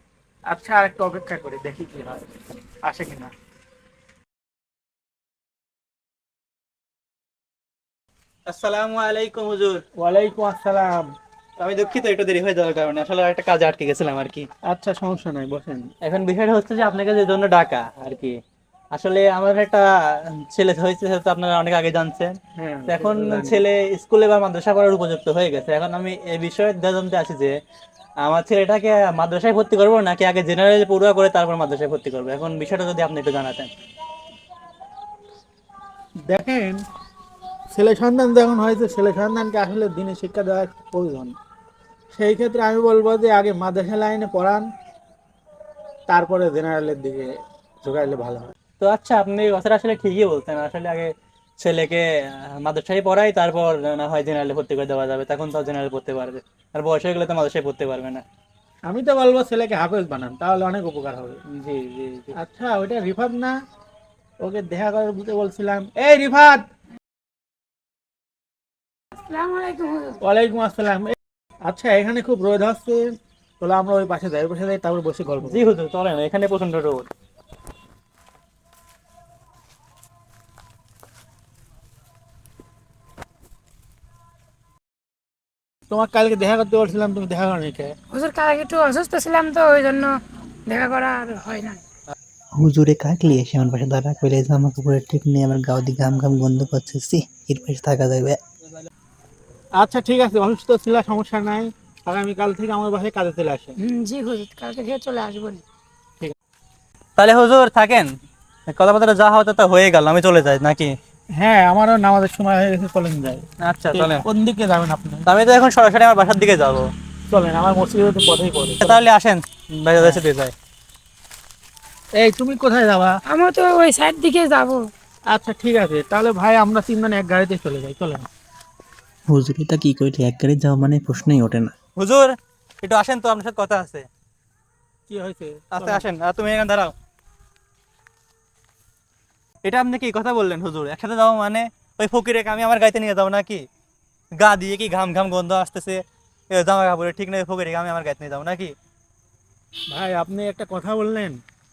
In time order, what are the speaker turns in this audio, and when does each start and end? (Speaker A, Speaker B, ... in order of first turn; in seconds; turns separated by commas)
Speaker A: 0.5-2.2, Speaker A: 2.8-3.3, Speaker B: 8.5-9.8, Speaker A: 9.9-11.1, Speaker B: 11.6-14.5, Speaker A: 14.6-15.9, Speaker B: 16.0-18.4, Speaker B: 18.9-27.6, Speaker A: 22.5-23.6, Speaker B: 28.2-33.7, Speaker A: 36.3-36.8, Speaker A: 37.7-41.3, Speaker A: 42.1-44.7, Speaker A: 46.1-48.5, Speaker B: 48.8-58.2, Speaker A: 58.9-61.4, Speaker B: 61.5-62.4, Speaker A: 62.3-63.5, Speaker A: 64.4-66.6, Speaker C: 69.2-70.2, Speaker A: 70.2-75.7, Speaker B: 75.4-77.1, Speaker A: 85.9-87.9, Speaker C: 88.1-91.8, Speaker D: 92.6-98.4, Speaker A: 99.8-103.8, Speaker C: 103.8-105.6, Speaker B: 107.2-108.1, Speaker B: 108.7-110.9, Speaker A: 111.3-115.2, Speaker B: 113.6-114.2, Speaker B: 115.2-116.9, Speaker A: 117.3-119.0, Speaker B: 118.8-120.5, Speaker A: 120.0-120.2, Speaker A: 122.2-123.2, Speaker C: 123.2-124.8, Speaker A: 125.3-128.3, Speaker D: 129.3-131.7, Speaker B: 131.9-134.1, Speaker A: 135.1-136.1, Speaker B: 135.7-136.9, Speaker B: 139.6-143.6, Speaker B: 144.4-148.7, Speaker A: 149.9-151.4